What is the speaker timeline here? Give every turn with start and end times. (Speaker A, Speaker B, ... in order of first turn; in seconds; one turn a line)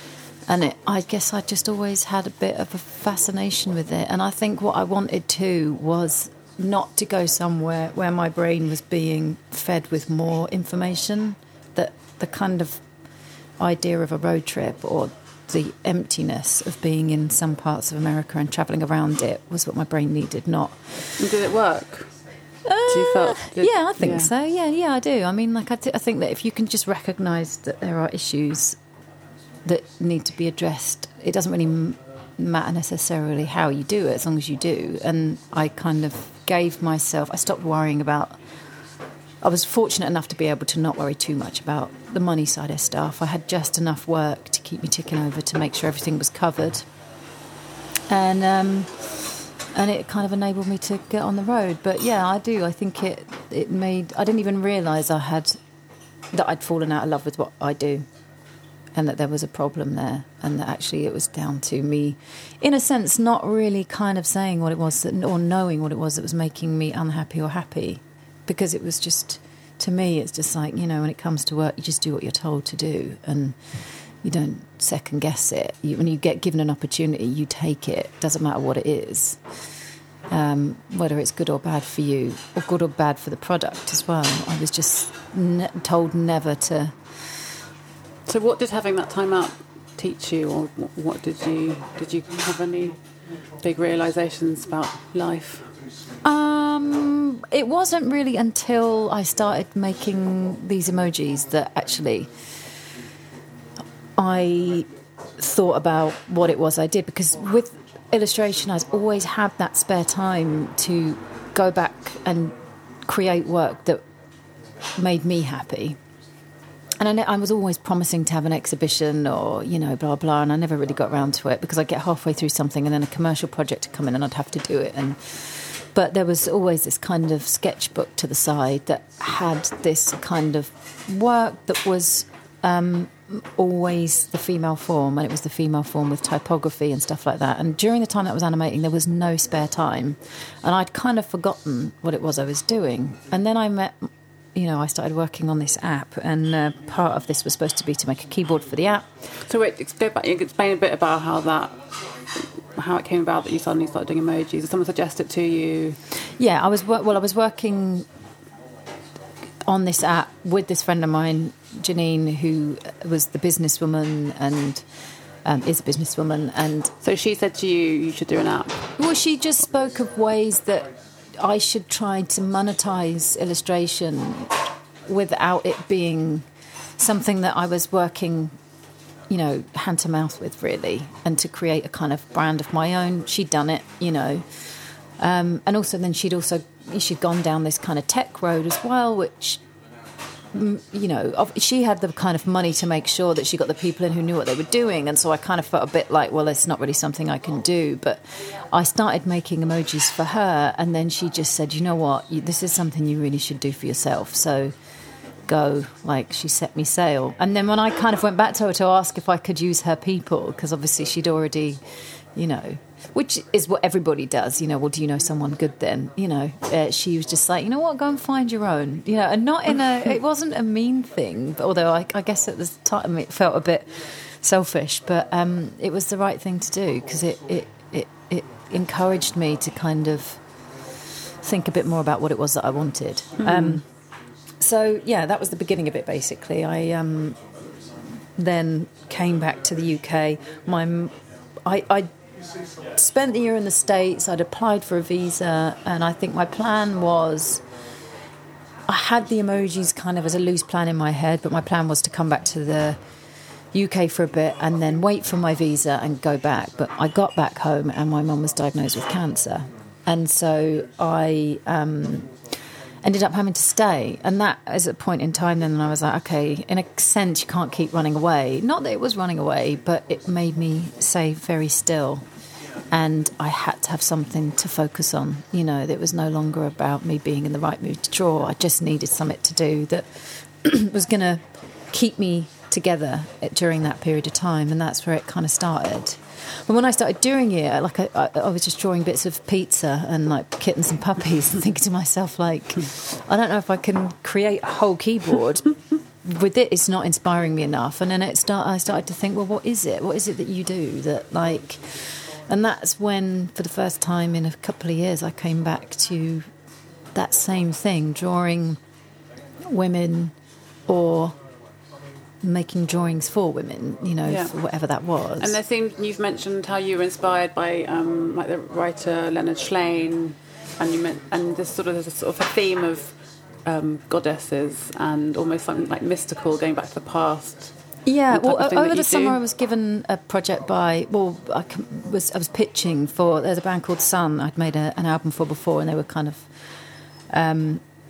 Speaker A: 0.5-12.8
Speaker A: 13.6-20.8
Speaker B: 21.2-22.1
Speaker A: 22.6-28.8
Speaker B: 22.9-24.3
Speaker A: 29.6-38.4
Speaker A: 39.4-46.9
Speaker A: 48.1-55.6
Speaker A: 56.3-58.1
Speaker A: 59.0-73.6
Speaker A: 74.2-79.4
Speaker A: 80.3-87.0
Speaker B: 88.3-93.0
Speaker B: 93.6-95.7
Speaker A: 96.2-102.3
Speaker A: 104.2-114.0
Speaker A: 115.0-116.0
Speaker A: 117.0-144.0
Speaker A: 144.6-149.1
Speaker B: 149.5-151.8
Speaker B: 152.7-156.0
Speaker A: 156.4-158.1
Speaker A: 159.7-164.8
Speaker A: 165.4-166.9
Speaker B: 167.0-168.8
Speaker A: 169.0-174.5
Speaker A: 175.1-176.4
Speaker A: 177.0-178.5
Speaker A: 179.3-184.6
Speaker A: 185.2-189.6
Speaker A: 190.5-204.7
Speaker A: 205.5-211.8
Speaker A: 212.3-230.4
Speaker A: 231.4-233.8
Speaker B: 233.4-233.8
Speaker A: 234.6-237.4
Speaker A: 238.3-242.1
Speaker A: 242.9-247.6
Speaker A: 248.9-253.0
Speaker A: 253.7-262.3
Speaker A: 263.0-272.3
Speaker A: 272.9-295.7
Speaker A: 296.2-306.4
Speaker A: 307.1-308.8
Speaker A: 309.6-310.4
Speaker A: 310.9-311.4
Speaker A: 312.4-315.6
Speaker B: 314.2-314.5
Speaker B: 315.4-323.1
Speaker B: 323.7-327.7
Speaker A: 328.1-336.5
Speaker B: 328.3-329.4
Speaker A: 337.3-337.8